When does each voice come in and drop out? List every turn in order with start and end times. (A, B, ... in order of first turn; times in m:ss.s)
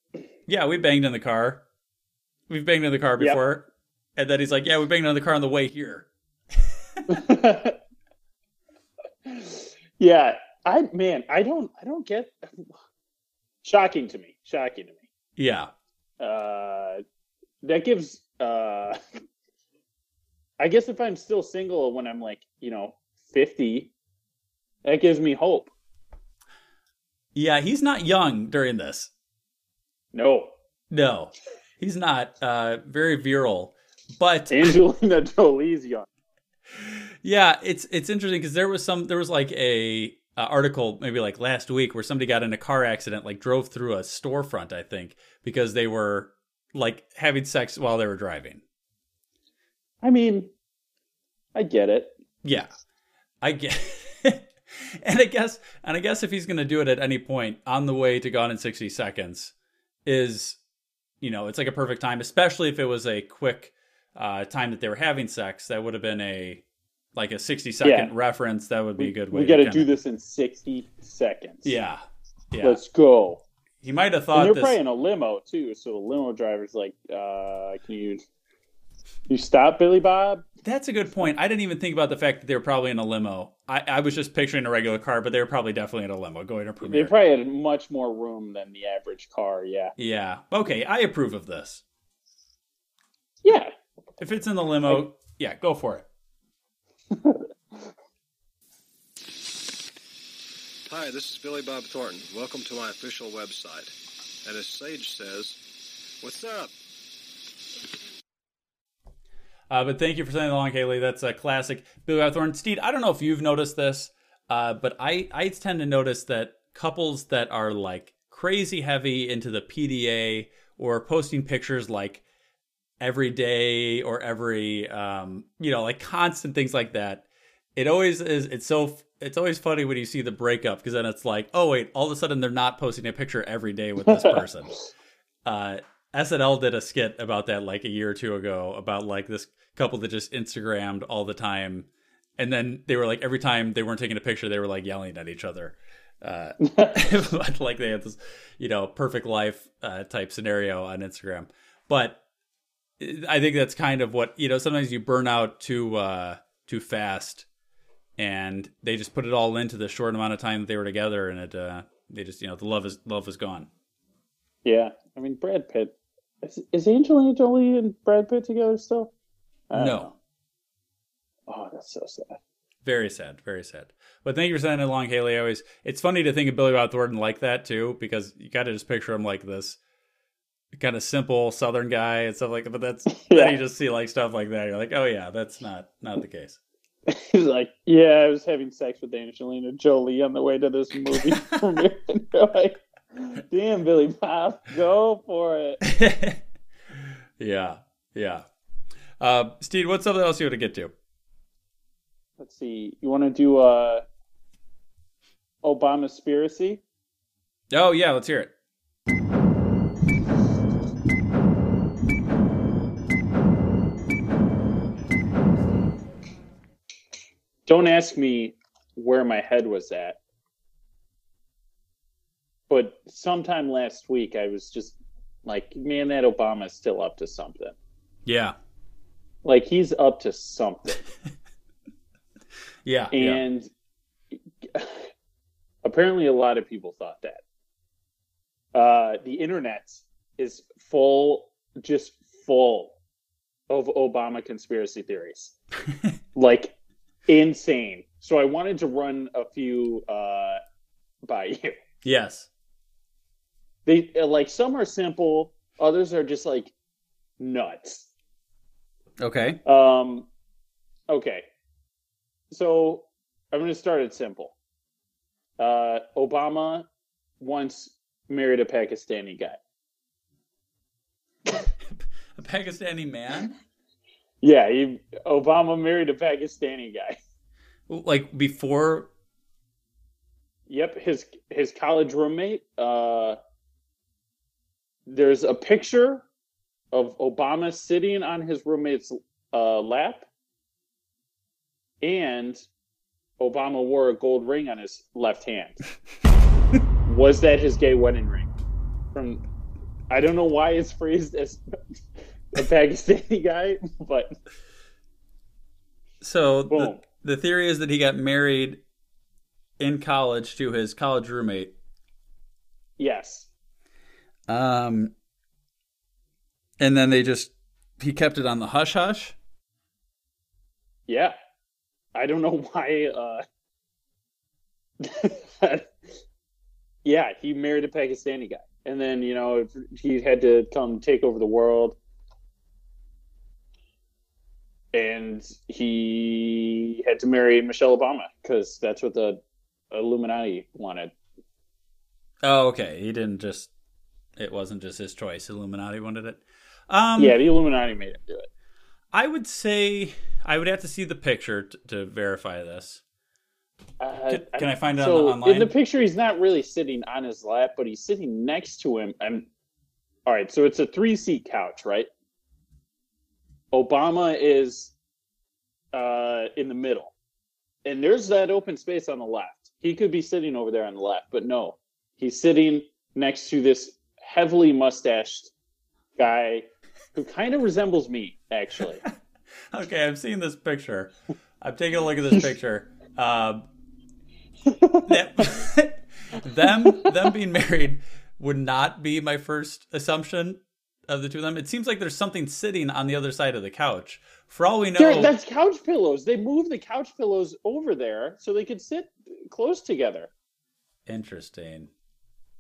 0:00.5-0:01.6 A
0:02.5-0:07.2 A
0:07.1-0:07.8 B
0:09.3-0:12.7 B
0:13.6-0:15.1 B
0:15.4-0:15.7 A
0:16.2-0:17.0 B
0:17.6-0:19.0 B
0:20.6-0:23.9 B
0:24.8-0:25.7 B
0:27.4-0:29.1 A
0:30.1-0:30.5 B
0:30.9-0:34.8 A
0:34.5-0:36.1 B
0:36.8-0:48.6 A
0:50.0-0:50.5 B
0:51.6-0:52.2 B
0:52.4-0:52.7 A
0:53.4-0:59.5 A
1:00.1-1:00.6 A
1:01.2-1:06.6 A
1:07.2-1:09.9 A
1:07.8-1:08.1 B
1:09.0-1:11.8 B
1:11.6-1:12.8 A
1:12.6-1:13.4 B
1:13.8-1:14.8 A
1:14.3-1:18.2 B
1:19.3-1:20.4 B
1:20.6-1:27.1 A
1:26.8-1:29.9 B
1:30.0-1:31.8 A
1:33.4-1:33.7 B
1:34.2-1:36.1 A
1:40.8-1:45.6 C
1:46.2-1:46.7 C
1:49.7-2:02.2 A
2:03.0-2:14.8 A
2:15.4-2:32.2 A
2:26.6-2:27.0 B
2:33.0-2:37.5 A
2:38.2-2:43.7 A
2:44.6-2:49.1 B
2:49.7-2:50.1 B
2:49.7-2:50.1 A
2:51.5-2:52.4 B
2:52.8-2:59.8 A
3:00.7-3:06.6 A
3:03.1-3:03.6 B
3:07.1-3:15.8 B
3:11.1-3:11.8 A
3:15.8-3:18.5 A
3:19.2-3:20.9 A
3:22.4-3:24.0 B
3:25.6-3:26.8 B
3:27.7-3:28.5 A
3:37.7-3:40.2 B
3:42.7-3:47.8 B
3:48.3-3:48.6 A
3:49.4-3:51.0 B
3:52.8-3:53.4 A
3:53.1-3:53.7 B
3:54.6-3:55.1 B
3:55.8-3:57.4 B
3:58.7-4:03.0 B
4:03.7-4:05.5 B
4:06.4-4:06.7 B
4:07.3-4:10.6 B
4:11.2-4:11.8 B
4:12.0-4:12.5 A
4:13.9-4:16.7 B
4:17.4-4:18.1 B
4:19.2-4:19.6 A
4:19.6-4:20.3 B
4:21.1-4:21.4 B
4:22.5-4:24.6 B
4:25.6-4:26.9 B
4:27.4-4:29.6 B
4:31.9-4:33.6 A
4:34.4-4:37.2 B
4:37.9-4:39.1 A
4:40.7-4:43.4 B
4:45.1-4:46.2 B
4:46.9-4:50.3 B
4:52.0-4:52.6 B
4:53.4-4:55.8 B
4:57.0-4:58.5 B
4:59.1-4:59.4 B
5:00.1-5:01.6 B
5:02.5-5:04.3 B
5:06.2-5:08.8 A
5:06.7-5:07.0 B
5:09.8-5:11.7 A
5:13.0-5:13.5 B
5:14.5-5:15.1 A
5:16.8-5:19.4 A
5:21.1-5:21.4 B
5:22.2-5:23.4 B
5:25.0-5:25.9 B
5:27.0-5:32.0 B
5:34.9-5:39.4 B
5:39.9-5:41.1 B
5:42.4-5:43.7 A
5:44.4-5:47.4 A
5:47.2-5:48.5 B
5:49.1-5:53.0 A
5:54.0-5:59.5 B
5:54.3-5:55.7 A
6:00.3-6:02.1 B
6:03.7-6:04.9 B
6:05.9-6:07.1 B
6:07.8-6:15.5 B
6:16.2-6:19.0 B
6:19.7-6:23.6 A
6:24.7-6:25.6 B
6:25.1-6:35.3 A
6:35.0-6:40.3 B
6:41.1-6:41.9 A